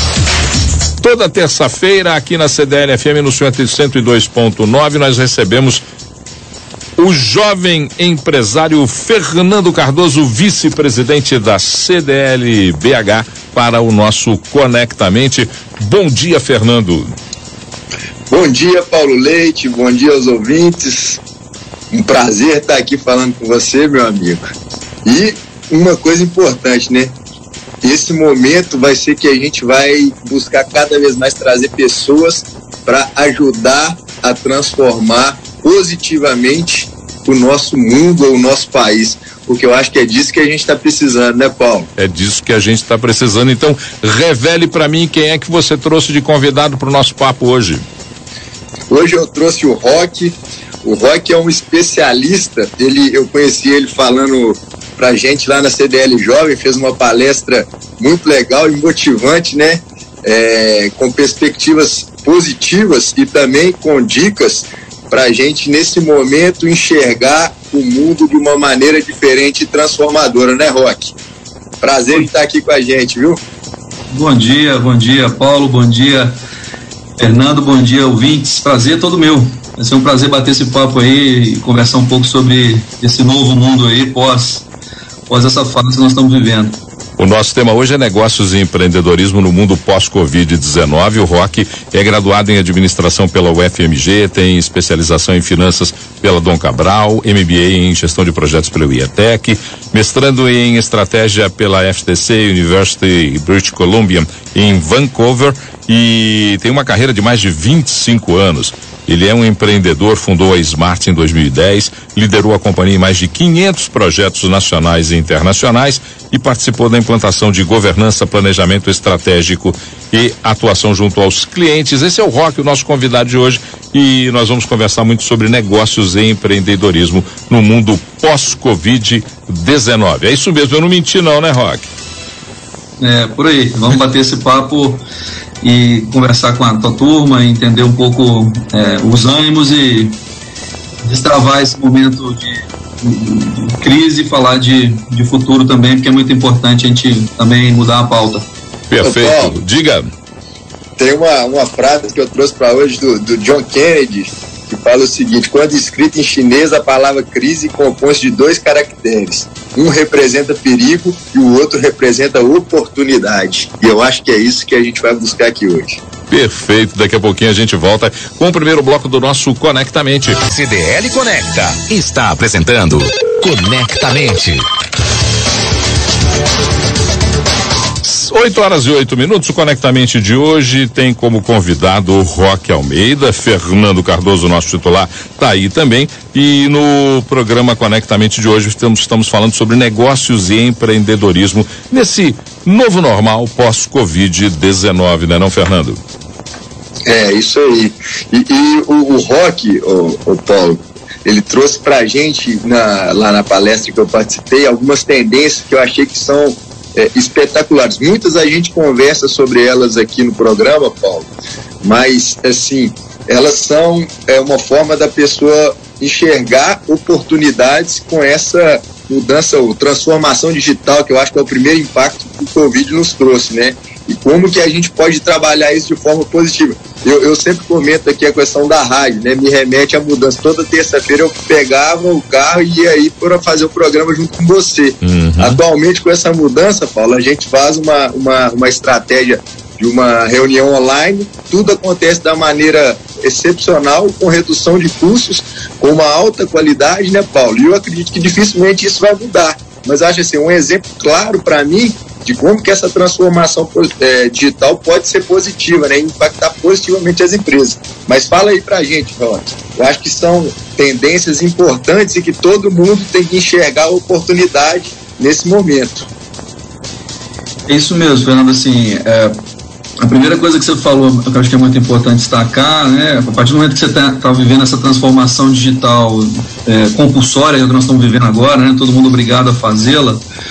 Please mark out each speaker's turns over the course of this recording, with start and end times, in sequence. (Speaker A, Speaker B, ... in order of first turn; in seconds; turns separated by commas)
Speaker A: 1.0-5.8, Speaker A: 7.0-17.2, Speaker B: 18.3-21.2, Speaker B: 21.9-24.5, Speaker B: 25.1-27.2, Speaker B: 27.8-41.9, Speaker A: 42.0-47.9, Speaker B: 48.9-71.2, Speaker B: 71.8-73.4, Speaker C: 74.1-76.4, Speaker C: 77.2-84.7, Speaker C: 85.3-86.8, Speaker A: 87.2-131.9, Speaker C: 133.0-135.0, Speaker C: 135.6-140.2, Speaker C: 141.0-148.5, Speaker A: 148.9-150.1, Speaker B: 149.0-149.6, Speaker B: 151.0-166.0, Speaker A: 166.3-170.4, Speaker D: 170.5-174.7, Speaker A: 178.0-196.0, Speaker B: 197.1-211.3, Speaker B: 211.8-266.1, Speaker A: 235.0-235.6, Speaker C: 267.7-269.4, Speaker C: 270.0-280.2